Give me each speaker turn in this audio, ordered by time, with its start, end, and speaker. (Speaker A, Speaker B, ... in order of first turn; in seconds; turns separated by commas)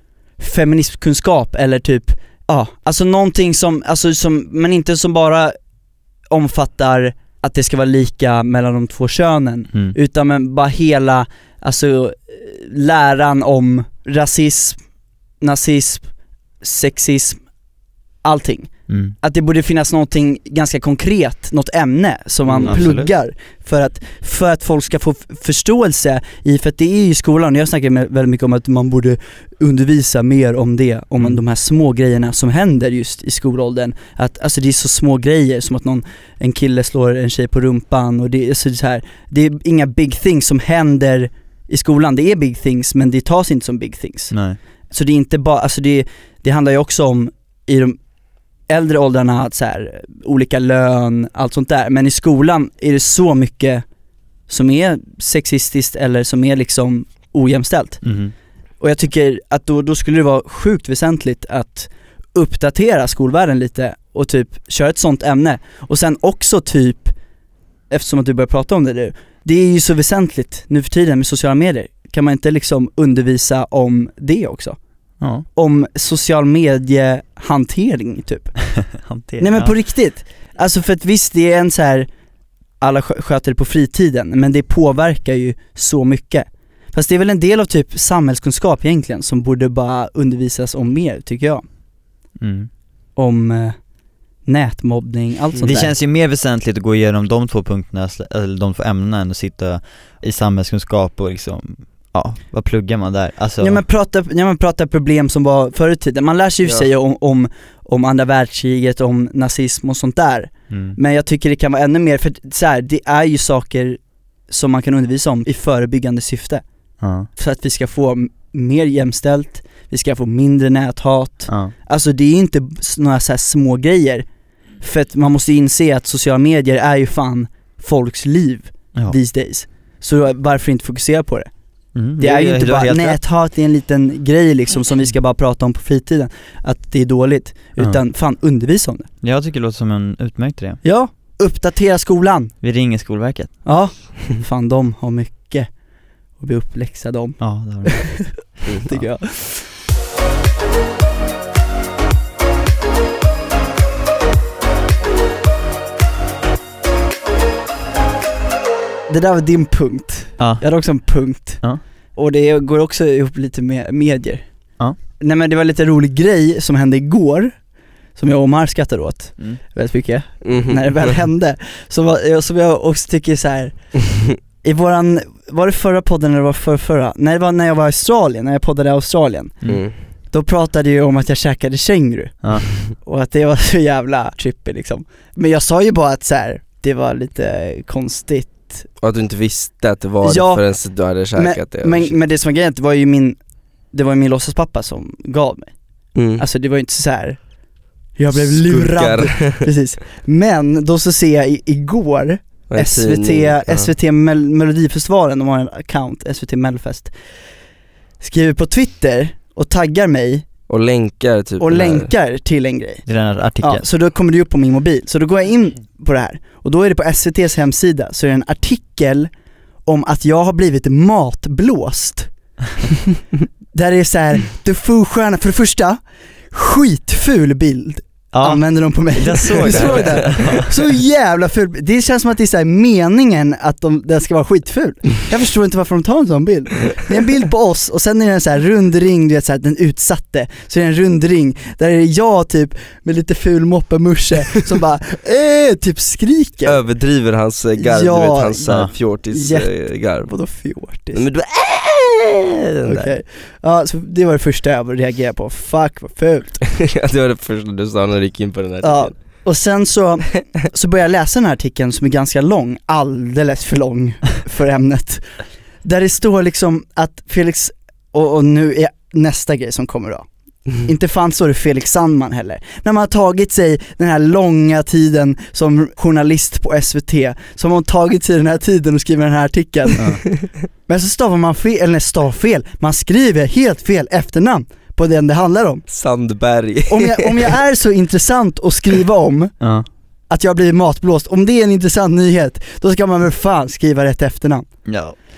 Speaker A: 0.4-5.5, Speaker A: 6.3-14.8, Speaker A: 15.4-16.1, Speaker A: 16.6-17.4, Speaker A: 18.2-44.3, Speaker B: 18.9-19.1, Speaker C: 22.5-22.8, Speaker B: 22.6-23.1, Speaker B: 44.3-44.6, Speaker A: 44.9-48.0, Speaker A: 48.7-53.8, Speaker A: 54.5-58.0, Speaker B: 58.0-58.3, Speaker A: 58.8-67.1, Speaker A: 67.9-74.8, Speaker B: 75.2-75.5, Speaker A: 75.5-78.5, Speaker B: 78.7-79.7, Speaker A: 79.4-82.1, Speaker A: 82.8-91.6, Speaker B: 92.4-92.7, Speaker A: 93.2-93.8, Speaker A: 94.5-95.9, Speaker B: 95.6-103.8, Speaker A: 103.6-116.6, Speaker B: 110.7-111.0, Speaker B: 117.0-117.3, Speaker A: 117.3-124.2, Speaker B: 121.5-121.7, Speaker A: 124.8-131.5, Speaker B: 131.9-133.2, Speaker A: 132.2-139.1, Speaker B: 139.2-140.8, Speaker A: 140.8-142.5, Speaker B: 142.6-143.5, Speaker A: 143.7-145.7, Speaker A: 146.4-149.7, Speaker B: 147.4-148.3, Speaker A: 159.1-161.6, Speaker B: 160.4-160.6, Speaker A: 162.2-164.4, Speaker A: 165.2-167.6, Speaker A: 168.2-173.9, Speaker C: 170.4-171.2, Speaker A: 174.6-179.6, Speaker C: 179.7-179.9, Speaker A: 180.3-188.8, Speaker C: 189.0-192.2, Speaker A: 190.2-190.7, Speaker A: 191.3-193.4, Speaker A: 193.9-195.7, Speaker C: 196.2-196.4, Speaker A: 196.4-197.4, Speaker A: 198.2-207.1, Speaker C: 198.3-199.7, Speaker C: 202.7-203.9, Speaker A: 208.2-210.5, Speaker C: 210.7-212.1, Speaker A: 211.6-213.0, Speaker B: 213.1-213.8, Speaker A: 213.6-219.3, Speaker A: 219.8-222.3, Speaker A: 223.7-226.0, Speaker A: 226.5-246.8, Speaker B: 228.3-230.7, Speaker C: 229.8-230.1, Speaker C: 246.7-250.3, Speaker A: 247.8-248.7, Speaker B: 248.7-248.9, Speaker A: 249.3-249.7, Speaker A: 250.2-251.2, Speaker C: 251.2-253.0, Speaker A: 252.9-256.6, Speaker C: 256.7-259.2, Speaker A: 258.8-265.3, Speaker A: 265.8-280.2, Speaker A: 280.9-285.8, Speaker C: 285.9-287.5, Speaker A: 286.9-289.5, Speaker B: 289.6-289.9, Speaker A: 290.3-294.7, Speaker B: 294.9-295.2